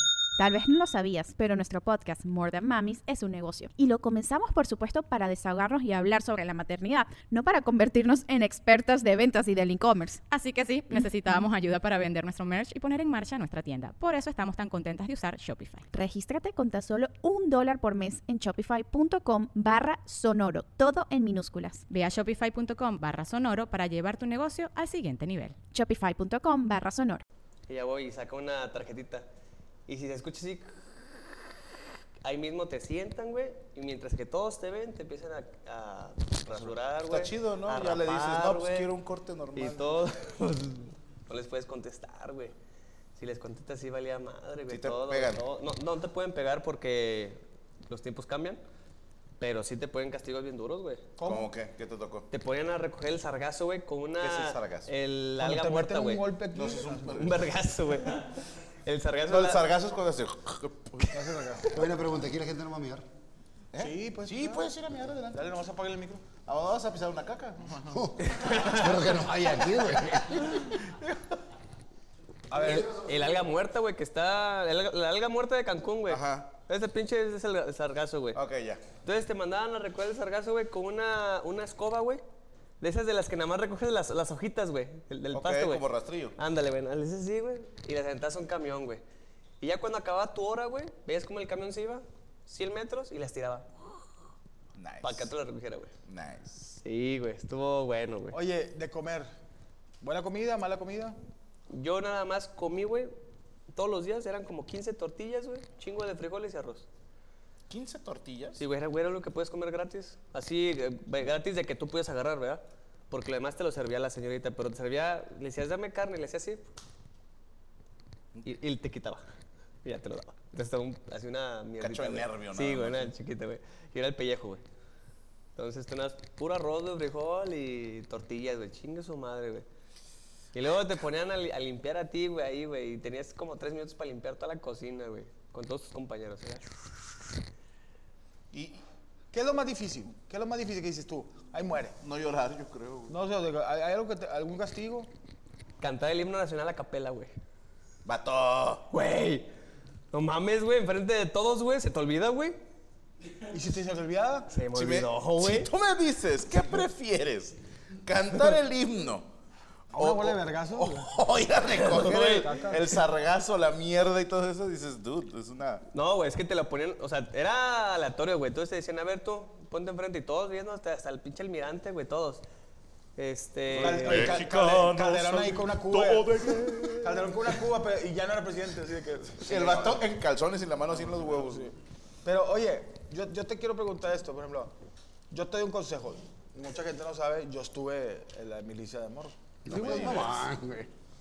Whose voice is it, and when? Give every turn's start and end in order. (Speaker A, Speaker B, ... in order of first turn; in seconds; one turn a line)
Speaker A: 0.4-10.2
Speaker B: 10.3-15.8
Speaker A: 15.9-21.9
Speaker B: 21.9-25.6
Speaker A: 25.7-27.2
Speaker C: 27.7-29.2
Speaker C: 29.9-30.7
Speaker C: 32.2-38.9
Speaker D: 36.5-40.0
Speaker C: 39.5-42.5
Speaker C: 43.1-48.6
Speaker D: 44.7-45.4
Speaker C: 49.4-51.1
Speaker E: 51.2-51.5
Speaker D: 51.2-52.3
Speaker C: 52.3-56.2
Speaker D: 54.2-54.9
Speaker E: 55.4-57.3
Speaker D: 56.5-57.5
Speaker C: 57.1-59.6
Speaker D: 59.3-61.4
Speaker E: 61.0-61.8
Speaker F: 61.7-63.0
Speaker D: 63.7-65.4
Speaker E: 63.8-64.8
Speaker E: 65.3-66.3
Speaker D: 66.4-67.9
Speaker F: 67.9-70.6
Speaker C: 68.2-69.2
Speaker E: 72.5-72.9
Speaker C: 72.6-78.4
Speaker F: 72.7-73.4
Speaker D: 76.1-76.5
Speaker D: 78.3-78.8
Speaker C: 79.0-82.2
Speaker C: 82.8-85.8
Speaker D: 85.3-86.3
Speaker C: 86.3-89.0
Speaker C: 89.6-93.7
Speaker D: 94.7-95.3
Speaker C: 95.0-95.9
Speaker D: 96.0-96.8
Speaker C: 96.8-98.4
Speaker E: 98.3-99.3
Speaker E: 100.0-101.2
Speaker C: 101.7-103.2
Speaker C: 103.7-106.8
Speaker D: 107.7-108.6
Speaker C: 108.5-116.7
Speaker C: 118.4-119.3
Speaker C: 119.8-124.6
Speaker D: 121.8-123.1
Speaker C: 125.5-129.7
Speaker C: 130.5-136.7
Speaker D: 138.5-138.8
Speaker E: 139.3-142.0
Speaker D: 142.0-143.2
Speaker E: 143.1-145.1
Speaker C: 145.8-147.3
Speaker D: 148.0-148.8
Speaker C: 148.9-149.5
Speaker C: 150.1-152.6
Speaker E: 153.5-154.5
Speaker C: 154.5-155.7
Speaker D: 154.7-159.3
Speaker D: 159.9-165.8
Speaker E: 159.9-161.1
Speaker C: 161.8-162.5
Speaker E: 161.9-163.0
Speaker C: 165.9-172.4
Speaker C: 173.2-174.4
Speaker D: 173.7-177.6
Speaker E: 173.8-180.0
Speaker D: 179.4-181.7
Speaker E: 180.9-181.7
Speaker E: 182.2-184.7
Speaker E: 185.3-190.1
Speaker F: 189.7-190.9
Speaker D: 189.7-190.4